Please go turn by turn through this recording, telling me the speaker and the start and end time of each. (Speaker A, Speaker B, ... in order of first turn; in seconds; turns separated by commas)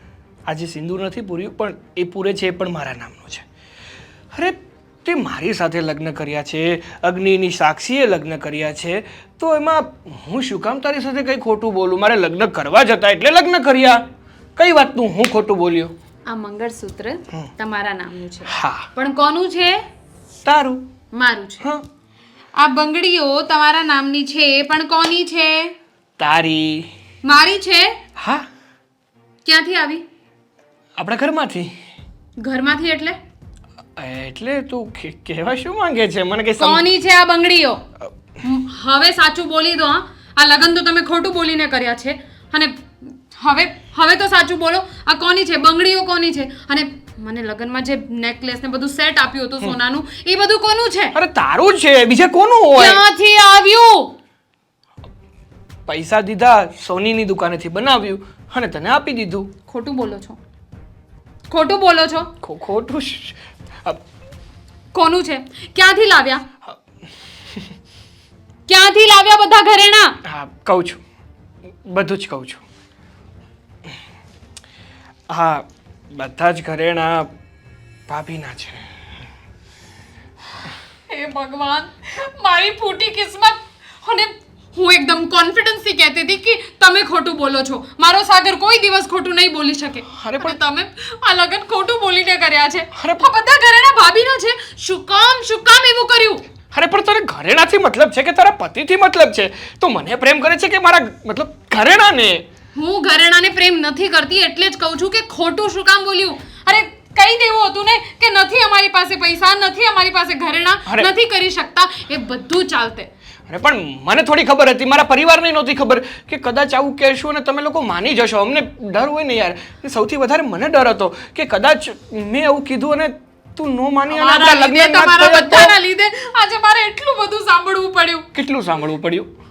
Speaker A: 0.5-3.4, Speaker A: 4.3-14.0, Speaker A: 14.6-15.9, Speaker B: 16.3-19.8, Speaker A: 18.5-18.9, Speaker A: 20.4-20.9, Speaker B: 21.1-21.6, Speaker B: 22.6-25.7, Speaker A: 26.2-26.9, Speaker B: 27.2-28.0, Speaker A: 28.2-28.4, Speaker B: 29.4-30.0, Speaker A: 31.0-31.7, Speaker B: 32.4-33.2, Speaker A: 34.0-36.9, Speaker B: 36.6-37.8, Speaker B: 38.4-51.1, Speaker A: 51.1-53.0, Speaker B: 52.7-54.1, Speaker A: 55.9-59.5, Speaker B: 59.7-60.4, Speaker B: 61.5-62.3, Speaker A: 62.4-63.3, Speaker B: 64.9-66.4, Speaker B: 68.7-70.2, Speaker A: 70.2-71.0, Speaker A: 71.8-72.6, Speaker A: 75.3-77.3, Speaker A: 78.1-78.9, Speaker B: 81.1-96.4, Speaker A: 90.1-90.6, Speaker A: 92.9-93.3, Speaker A: 96.7-102.4, Speaker B: 102.7-113.1, Speaker A: 113.5-125.7, Speaker B: 124.1-128.3, Speaker A: 128.3-129.3